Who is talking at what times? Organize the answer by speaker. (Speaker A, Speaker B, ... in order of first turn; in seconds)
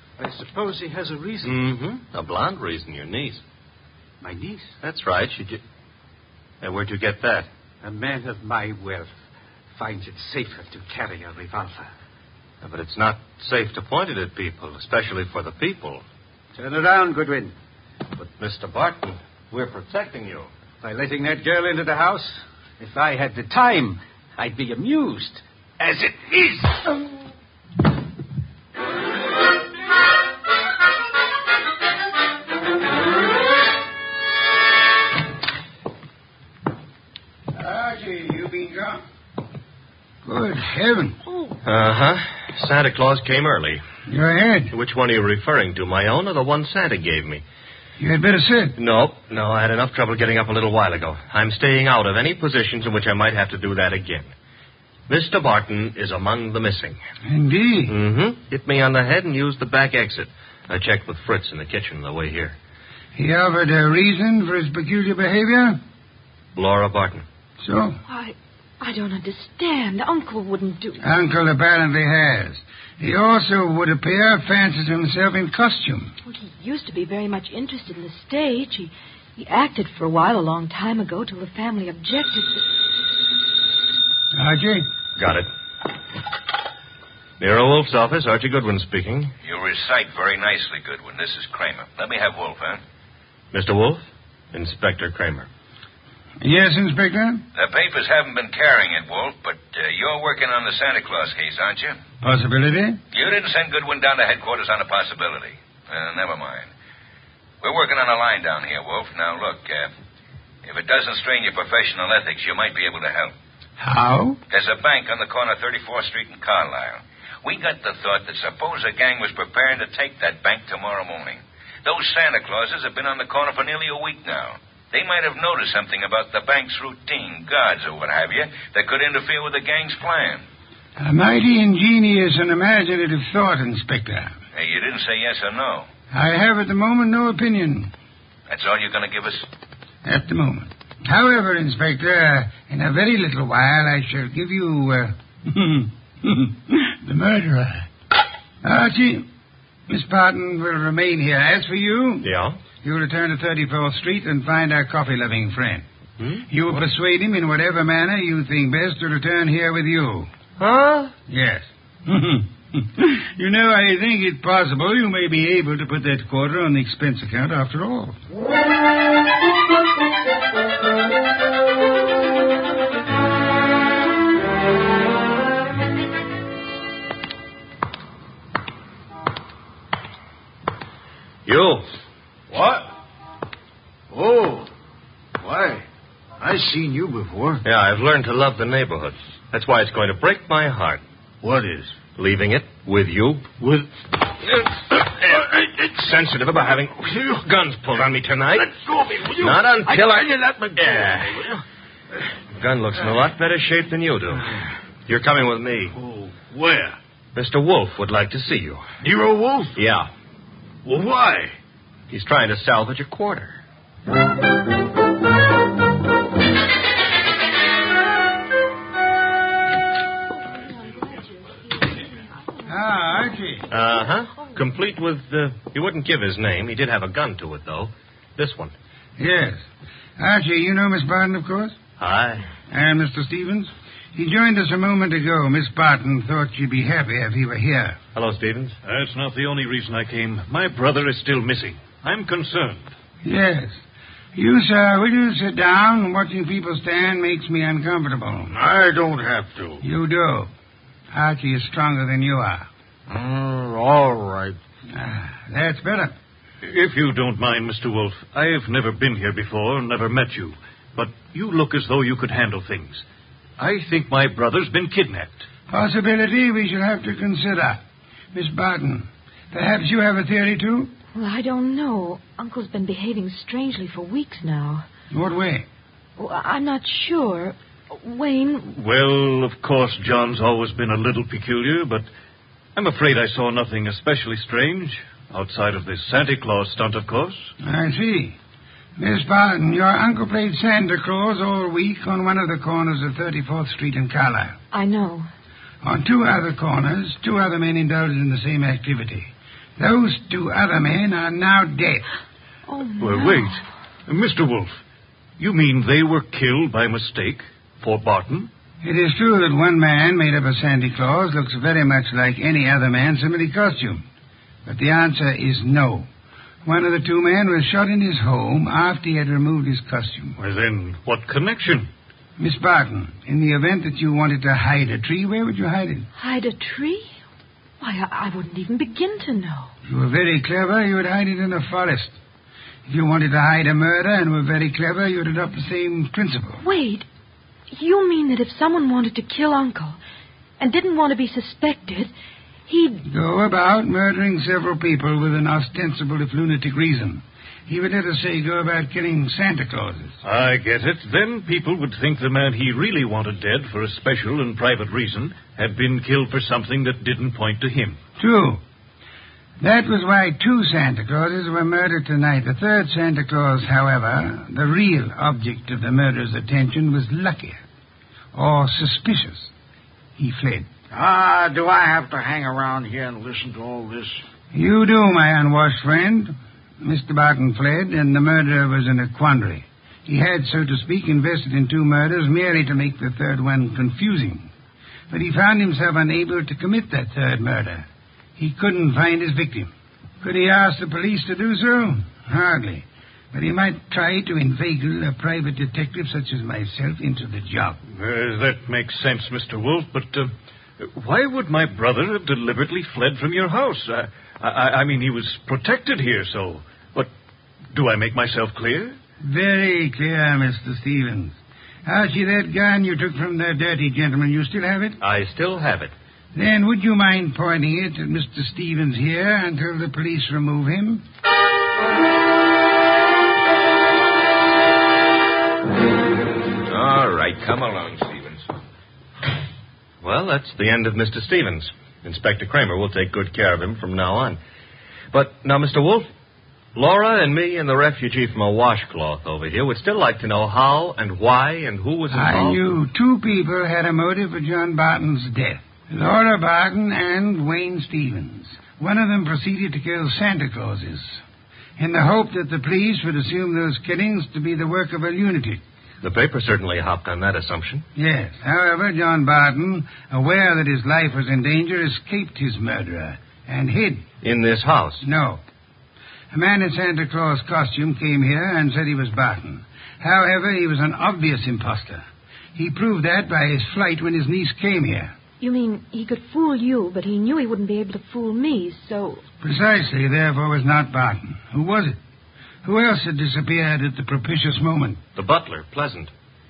Speaker A: 0.2-1.6, 4.2-4.7, 7.8-9.1, 9.8-11.9, 16.6-17.5, 20.8-26.8
Speaker B: 1.4-3.4, 4.8-5.6, 6.6-7.5, 12.6-16.0, 18.2-20.5, 41.6-43.8, 44.7-47.4, 48.8-54.3, 55.1-57.0, 57.9-62.5, 66.5-67.2, 85.2-85.5, 87.4-89.3, 93.5-95.5, 152.2-152.6, 156.2-156.4, 160.6-161.1, 181.4-181.9, 187.6-191.0, 192.2-193.4, 195.9-198.7, 199.4-201.4, 202.6-204.5, 205.1-205.9, 207.3-208.9, 209.8-210.1, 212.1-213.6, 223.7-228.7, 232.0-232.5, 238.1-238.8, 415.0-415.9, 430.0-434.4, 435.1-436.1, 436.7-442.6, 456.0-457.9, 464.2-465.0, 485.1-486.1
Speaker C: 37.5-39.0, 40.2-41.2, 44.1-44.7, 48.0-48.8, 57.2-58.0, 63.1-65.8, 67.6-68.0, 71.0-76.1, 84.3-84.9, 96.4-97.4, 102.2-103.0, 113.8-114.4, 131.0-134.3, 136.1-137.9, 140.0-147.9, 148.6-149.3, 149.9-152.3, 152.8-155.8, 156.5-160.3, 161.3-168.2, 222.7-223.7, 229.2-229.6, 230.2-231.8, 232.7-238.0, 243.2-243.8, 244.3-248.5, 249.8-250.5, 251.1-252.7, 254.9-256.1, 265.7-267.8, 268.3-270.9, 275.1-275.7, 287.6-288.4, 289.0-294.6, 295.8-302.1, 308.8-314.0, 314.6-316.1, 316.6-320.4, 322.4-326.1, 329.9-332.1, 332.9-336.6, 343.1-350.2, 358.2-358.6, 359.6-367.6, 368.3-369.5, 370.2-370.7, 374.5-384.5, 385.1-389.7, 390.2-397.8, 409.2-415.0, 416.3-421.0, 442.1-451.2, 451.8-455.6, 457.9-464.0, 465.0-465.4, 466.3-475.1, 479.4-482.0, 482.6-485.0
Speaker D: 68.1-71.0, 76.2-82.6, 271.1-274.9, 276.2-278.7, 294.7-295.3, 302.7-303.6, 326.1-327.1, 327.8-329.7, 336.6-337.1, 337.7-340.0, 340.6-342.1, 342.7-343.0, 475.4-479.2
Speaker E: 89.4-92.8, 97.5-102.0, 103.1-106.7, 107.6-109.9, 110.6-113.3, 114.5-130.4, 134.5-135.9, 138.5-139.5, 426.6-428.4
Speaker F: 182.5-182.9, 184.1-184.7, 185.4-185.8, 186.4-187.6, 191.4-191.9, 193.6-193.9, 195.3-196.0, 197.0-197.4, 198.6-201.6, 205.9-206.9, 209.0-209.8, 210.8-211.5, 248.5-249.8, 253.1-254.6, 370.9-374.2
Speaker G: 238.8-242.9, 256.6-263.0, 263.6-265.4, 278.7-282.1, 282.8-287.5, 303.0-304.8, 305.4-308.5, 320.4-321.9, 350.2-358.0, 397.9-407.1, 407.7-409.0